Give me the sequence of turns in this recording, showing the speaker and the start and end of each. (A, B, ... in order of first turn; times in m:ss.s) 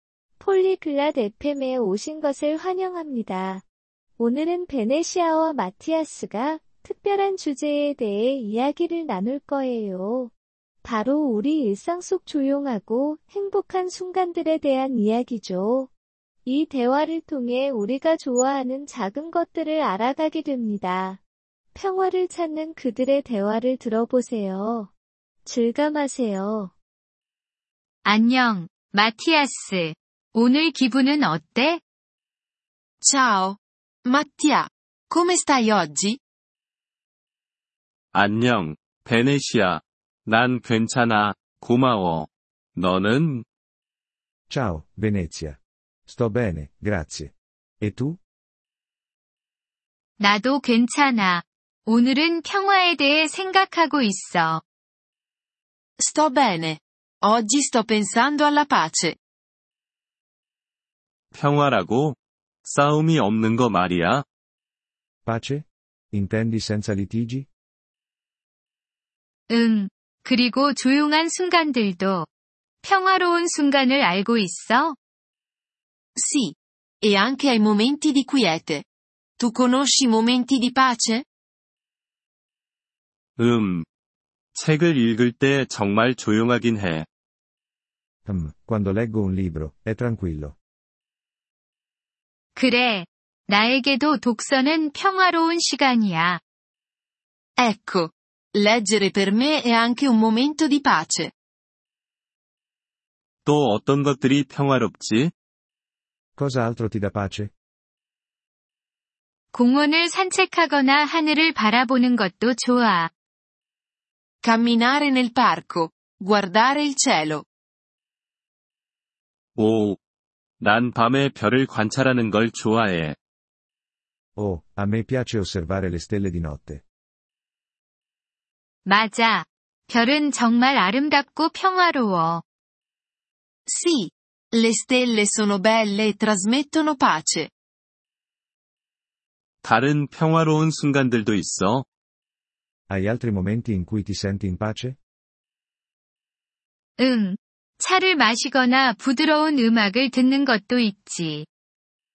0:00.4-0:03.6 A
0:04.2-0:10.3 A
0:10.8-0:15.9 A
0:16.4-0:21.2 A
0:21.7-0:24.9 A
0:25.4-0:26.7 A
0:28.0-0:31.8 B
0:33.0-0:36.2 C
0:38.1-0:43.4 D
0:44.5-0:48.2 E
0:50.2-0:54.6 B
0:56.0-0:59.2 C
1:01.3-1:04.2 D
1:05.2-1:07.5 E
1:09.5-1:12.3 B
1:12.8-1:15.0 B
1:16.2-1:18.8 C
1:19.4-1:21.2 C
1:23.4-1:23.8 D
1:24.5-1:27.0 D
1:28.2-1:30.6 E
1:32.6-1:36.4 B
1:37.6-1:41.3 C
1:43.4-1:45.3 D
1:46.4-1:47.5 E
1:49.5-1:53.1 B
1:54.4-1:57.4 C
1:59.6-2:00.0 D
2:00.6-2:03.2 D
2:04.4-2:06.8 E
2:08.8-2:12.4 B
2:13.7-2:17.5 C
2:19.6-2:21.8 D
2:22.9-2:25.0 E
2:27.0-2:31.4 B